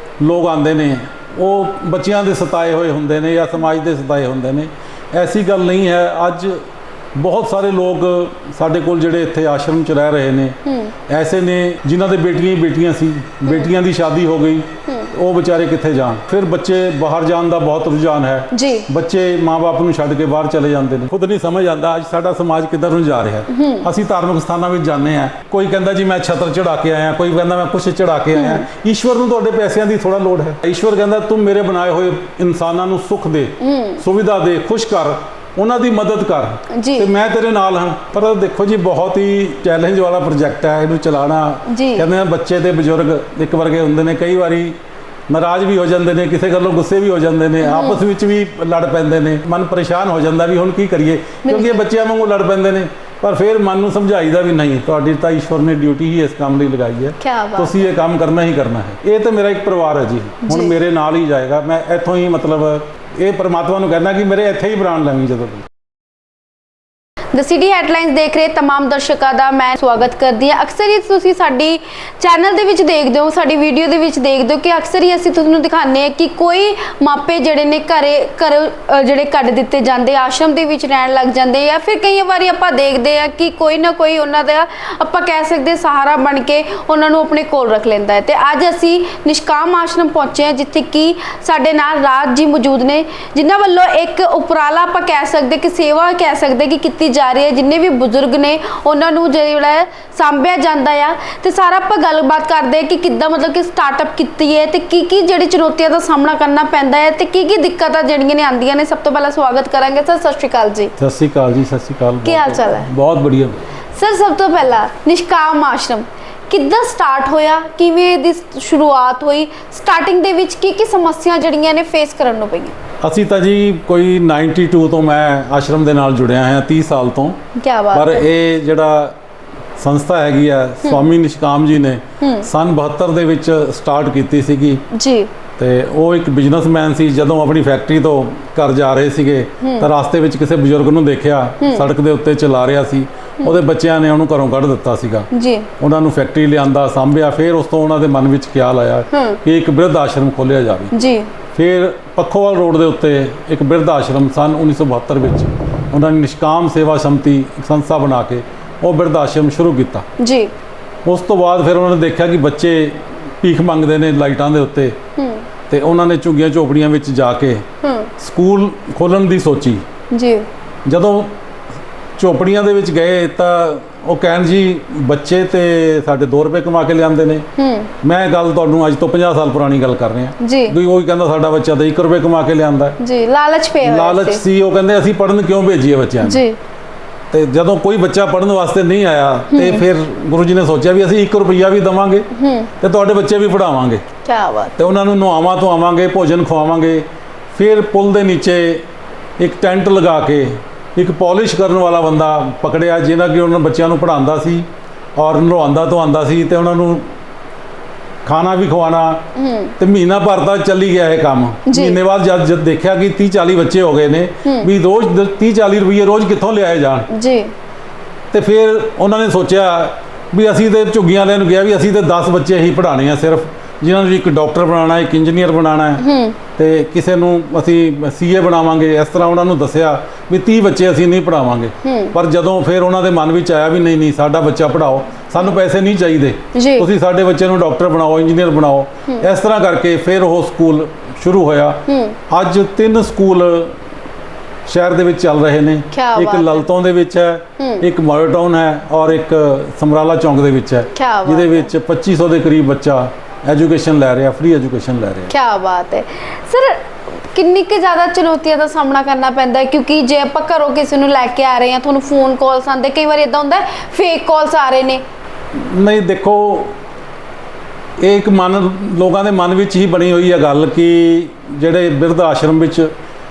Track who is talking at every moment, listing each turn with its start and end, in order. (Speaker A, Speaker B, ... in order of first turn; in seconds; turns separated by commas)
Speaker A: 0.2-6.6, Speaker A: 7.1-44.8, Speaker B: 10.7-10.9, Speaker B: 18.5-18.9, Speaker B: 23.5-23.9, Speaker B: 28.3-28.6, Speaker B: 33.6-34.0, Speaker B: 36.7-37.1, Speaker B: 41.7-42.0, Speaker A: 45.3-65.7, Speaker B: 47.6-48.0, Speaker B: 51.4-51.8, Speaker B: 57.2-57.9, Speaker B: 60.5-60.7, Speaker B: 67.3-110.9, Speaker A: 111.0-113.6, Speaker B: 112.2-112.9, Speaker B: 113.9-122.7, Speaker A: 123.0-127.4, Speaker B: 127.6-128.2, Speaker A: 127.9-129.2, Speaker A: 129.8-134.8, Speaker B: 132.2-132.5, Speaker B: 134.9-135.3, Speaker A: 135.6-150.9, Speaker B: 139.6-139.9, Speaker B: 141.6-141.9, Speaker B: 145.3-145.7, Speaker B: 149.1-149.4, Speaker B: 150.9-151.3, Speaker A: 151.5-160.1, Speaker B: 160.2-160.5, Speaker A: 161.0-165.0, Speaker B: 165.2-165.4, Speaker A: 165.7-169.8, Speaker B: 167.8-168.1, Speaker B: 170.1-170.4, Speaker A: 170.8-171.3, Speaker A: 172.2-177.4, Speaker B: 177.6-177.9, Speaker A: 178.0-183.0, Speaker B: 180.4-180.8, Speaker B: 183.0-184.4, Speaker A: 183.8-186.4, Speaker B: 186.2-186.6, Speaker A: 187.3-192.3, Speaker B: 189.5-189.8, Speaker B: 192.3-192.7, Speaker A: 192.8-194.0, Speaker B: 194.2-194.7, Speaker A: 194.8-198.8, Speaker A: 199.4-207.1, Speaker A: 208.2-209.2, Speaker B: 209.3-209.8, Speaker A: 209.8-217.1, Speaker B: 211.7-212.0, Speaker B: 214.4-214.7, Speaker B: 217.1-217.5, Speaker A: 218.3-226.0, Speaker B: 226.0-226.4, Speaker A: 226.6-243.8, Speaker B: 231.8-232.1, Speaker B: 236.5-236.9, Speaker B: 241.9-242.2, Speaker A: 244.7-255.3, Speaker B: 245.9-246.7, Speaker B: 247.6-247.8, Speaker B: 250.9-251.7, Speaker B: 255.3-265.0, Speaker A: 265.5-266.8, Speaker A: 268.0-272.9